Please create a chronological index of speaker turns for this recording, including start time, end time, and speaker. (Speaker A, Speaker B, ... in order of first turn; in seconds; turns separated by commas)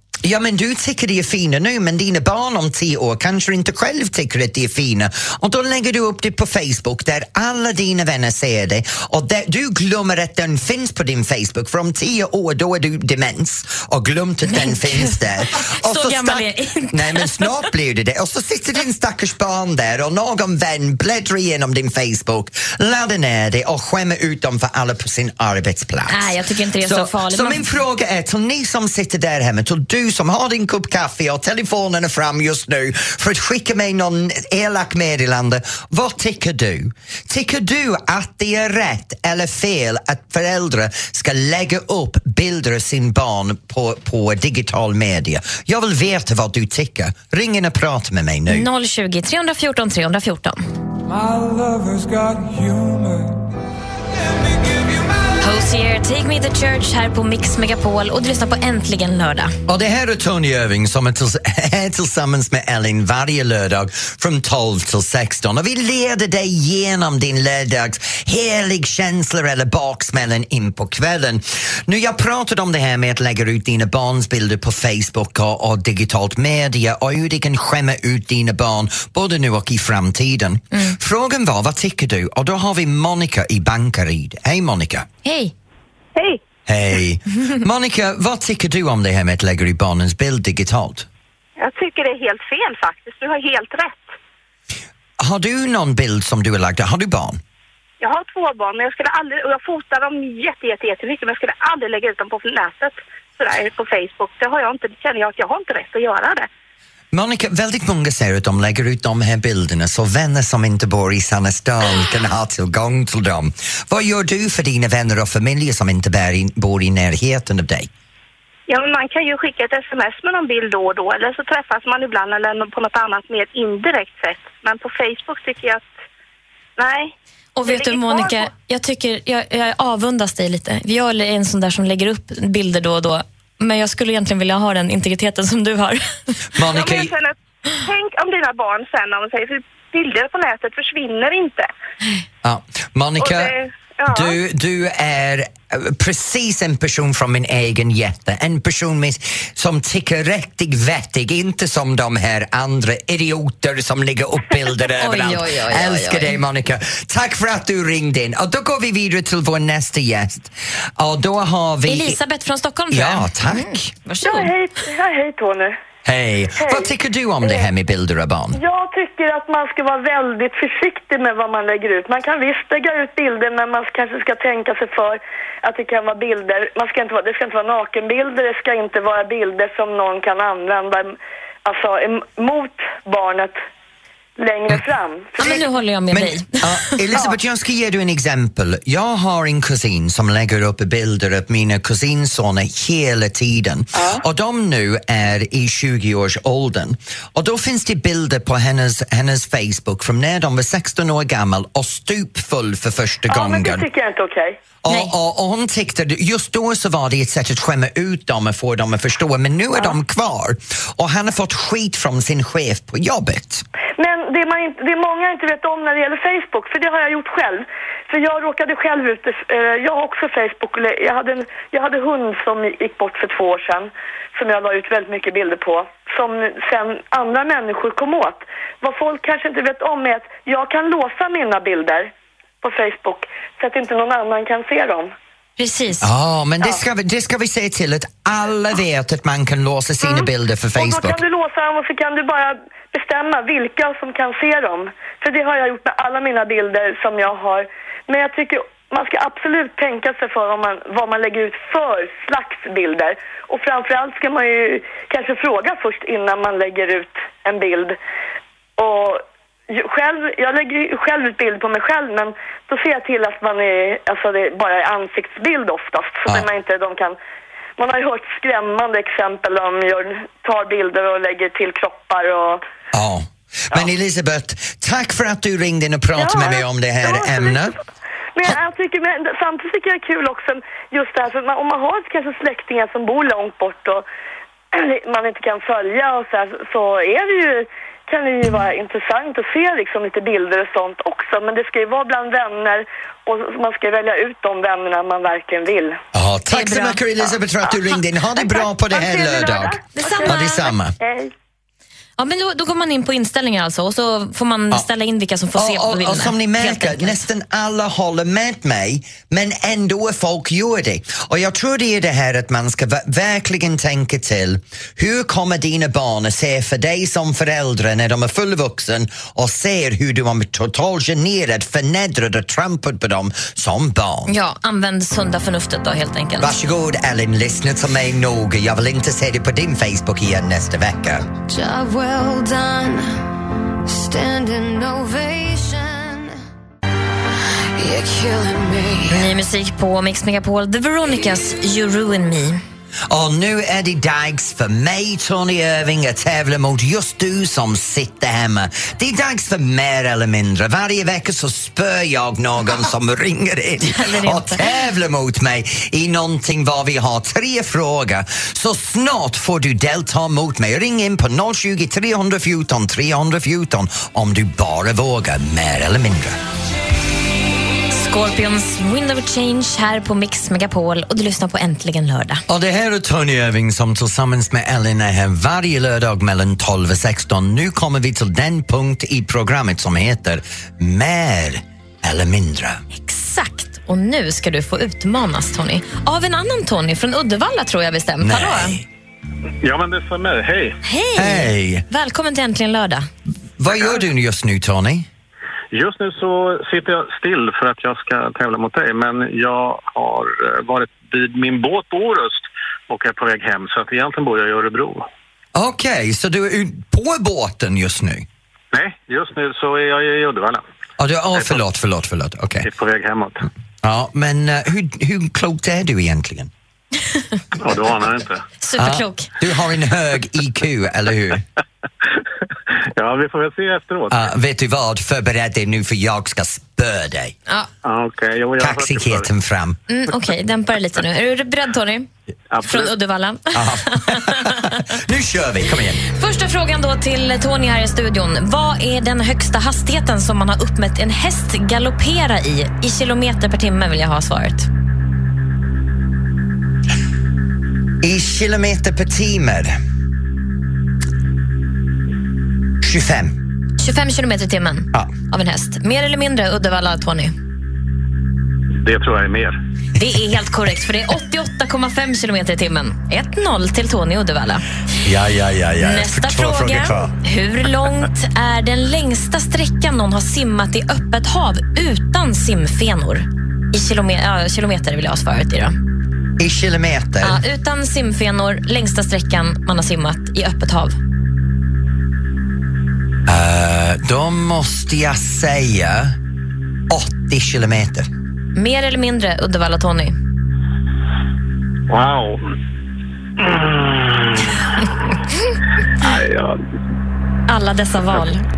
Speaker A: 0.2-48.7, Speaker B: 14.4-17.6, Speaker B: 26.1-27.7, Speaker B: 48.5-50.6, Speaker C: 51.3-52.0, Speaker C: 52.6-53.0, Speaker B: 55.4-59.5, Speaker A: 59.7-85.1, Speaker B: 85.2-85.5, Speaker A: 86.7-91.1, Speaker D: 91.6-94.2, Speaker A: 95.2-97.4, Speaker D: 98.0-106.5, Speaker A: 107.1-117.9, Speaker D: 118.7-125.9, Speaker D: 126.8-128.5, Speaker B: 127.5-136.3, Speaker A: 136.5-137.1, Speaker D: 136.7-141.7, Speaker A: 142.4-143.5, Speaker D: 143.2-144.4, Speaker A: 144.1-162.2, Speaker B: 155.0-156.4, Speaker B: 161.8-164.5, Speaker A: 162.9-163.9, Speaker E: 164.2-165.7, Speaker A: 166.0-168.6, Speaker E: 166.6-166.9, Speaker E: 168.5-183.6, Speaker E: 184.4-185.7, Speaker B: 185.4-186.9, Speaker A: 186.1-203.9, Speaker E: 203.3-204.6, Speaker A: 204.8-213.6, Speaker E: 214.0-232.1, Speaker E: 232.6-235.1, Speaker B: 235.6-236.1, Speaker A: 236.0-241.2, Speaker E: 240.0-258.0, Speaker E: 258.8-267.2, Speaker E: 267.8-272.6, Speaker A: 272.9-277.7, Speaker E: 276.2-277.7, Speaker E: 278.3-284.0, Speaker E: 284.7-296.0, Speaker A: 296.1-300.9, Speaker B: 296.5-297.0, Speaker E: 298.5-301.3, Speaker B: 299.9-300.7, Speaker B: 302.2-307.2, Speaker A: 305.5-324.3, Speaker B: 324.3-326.6, Speaker A: 326.4-331.3, Speaker C: 331.5-333.2, Speaker C: 333.9-336.3, Speaker C: 337.8-339.2, Speaker B: 339.1-342.6, Speaker A: 343.1-366.4, Speaker B: 353.9-354.6, Speaker B: 367.9-372.4, Speaker A: 372.5-382.8, Speaker B: 382.9-388.8, Speaker A: 388.2-388.9, Speaker F: 389.6-390.8, Speaker B: 390.8-393.1, Speaker A: 391.1-391.8, Speaker A: 393.6-395.1, Speaker F: 395.7-405.1, Speaker A: 405.5-408.3, Speaker F: 408.7-410.6, Speaker A: 411.0-412.7, Speaker F: 412.6-413.5, Speaker A: 413.8-416.5, Speaker F: 417.6-418.4, Speaker B: 418.6-419.3, Speaker A: 418.8-421.4, Speaker F: 422.9-424.2, Speaker A: 424.1-427.4, Speaker F: 427.8-429.3, Speaker A: 428.6-429.8, Speaker B: 429.9-432.1, Speaker F: 432.5-432.9, Speaker B: 432.6-434.8, Speaker A: 433.5-436.0, Speaker B: 436.1-444.7, Speaker A: 448.0-449.8, Speaker A: 452.8-453.4, Speaker B: 453.8-457.3, Speaker F: 458.8-459.6, Speaker B: 460.0-464.6, Speaker A: 465.0-467.1, Speaker B: 465.8-475.7, Speaker A: 476.4-477.4, Speaker B: 477.2-480.9, Speaker A: 483.2-486.1, Speaker A: 486.9-488.1, Speaker B: 488.5-490.1, Speaker F: 491.9-492.4, Speaker F: 493.4-494.6, Speaker F: 496.0-496.6, Speaker B: 497.5-498.4